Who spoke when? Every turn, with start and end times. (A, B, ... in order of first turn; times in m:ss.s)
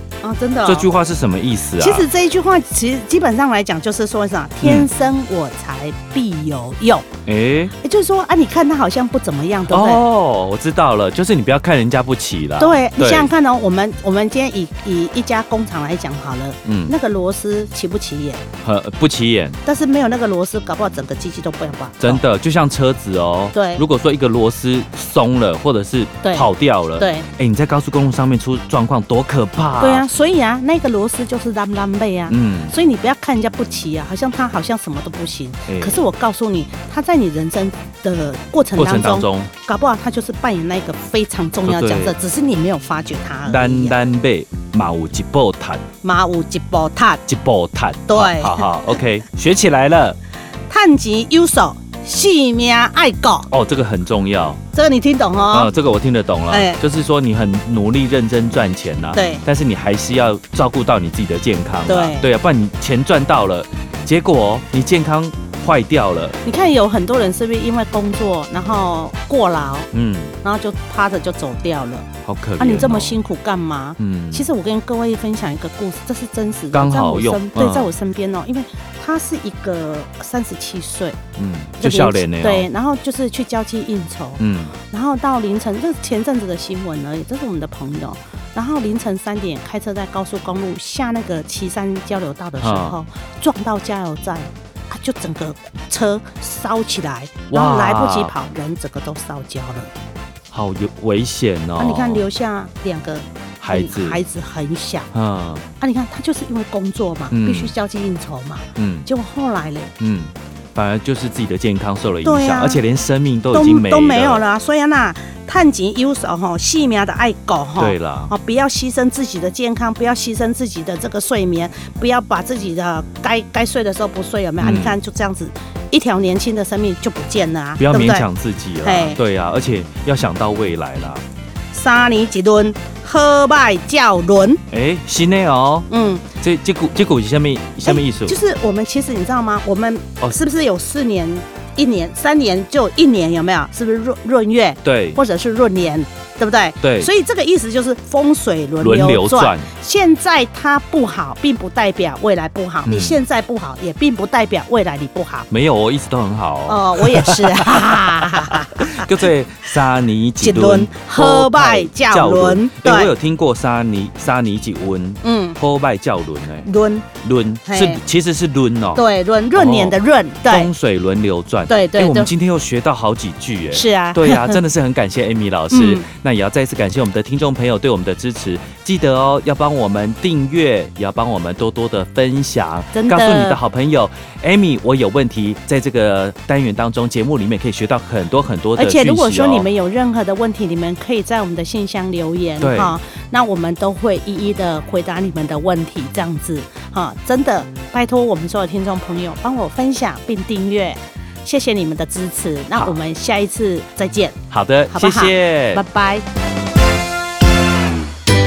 0:00.2-0:00.9 A
0:00.6-0:02.0 B
0:01.8-0:07.0 A
0:04.6-0:04.9 B
0:07.2-0:07.7 B
0:07.8-0:10.0 A
0:09.7-0:13.3 B
0:12.6-0:18.4 A
0:16.6-0:16.9 B
0:18.6-0:19.6 B
0:19.6-0:22.2 A
0:22.0-0:30.0 B
0:23.5-0:23.8 A
0:26.2-0:27.3 A
0:29.8-0:44.0 A
0:32.3-0:32.7 B
0:35.7-0:36.0 B
0:38.8-0:39.5 B
0:41.6-0:42.1 B
0:43.4-0:45.9 B
0:46.0-0:47.2 A
0:47.2-0:50.2 B
0:48.1-0:48.7 A
0:50.7-0:53.5 A
0:53.5-0:54.6 B
0:54.7-0:55.7 A
0:55.5-1:06.4 B
0:56.5-0:56.8 A
0:59.1-0:59.4 A
1:01.9-1:02.2 A
1:06.4-1:09.9 A
1:09.9-1:10.4 B
1:10.4-1:12.1 A
1:12.2-1:13.2 B
1:12.6-1:21.2 A
1:14.0-1:14.5 B
1:16.7-1:17.9 B
1:21.4-1:22.7 B
1:21.8-1:39.9 A
1:24.4-1:24.8 B
1:32.6-1:33.0 B
1:37.5-1:38.3 B
1:40.5-1:42.2 B
1:41.8-1:45.1 A
1:43.6-1:44.2 B
1:45.1-1:45.6 B
1:45.8-1:49.9 A
1:47.3-1:47.7 B
1:48.8-1:49.1 B
1:50.0-1:54.4 B
1:52.2-1:52.8 A
1:53.5-2:08.3 A
1:57.8-1:58.3 B
2:04.6-2:05.0 B
2:07.8-2:11.2 B
2:08.8-2:09.2 A
2:11.7-2:14.6 A
2:14.7-2:15.9 B
2:15.9-2:16.2 A
2:16.4-2:18.4 B
2:17.8-2:35.5 A
2:24.8-2:25.2 B
2:26.8-2:27.1 B
2:28.8-2:29.7 B
2:32.8-2:33.2 B
2:35.5-2:46.7 B
2:36.6-2:39.1 A
2:40.4-2:43.1 A
2:45.2-2:45.6 A
2:46.6-2:47.1 A
2:47.2-2:49.0 B
2:47.6-2:48.0 A
2:48.9-2:50.7 A
2:49.5-3:09.7 B
2:51.7-2:52.3 A
2:53.7-2:54.6 A
2:55.7-2:56.0 A
3:02.9-3:03.6 A
3:08.8-3:24.4 A
3:12.6-3:13.0 B
3:24.5-3:25.8 B
3:24.9-3:26.2 A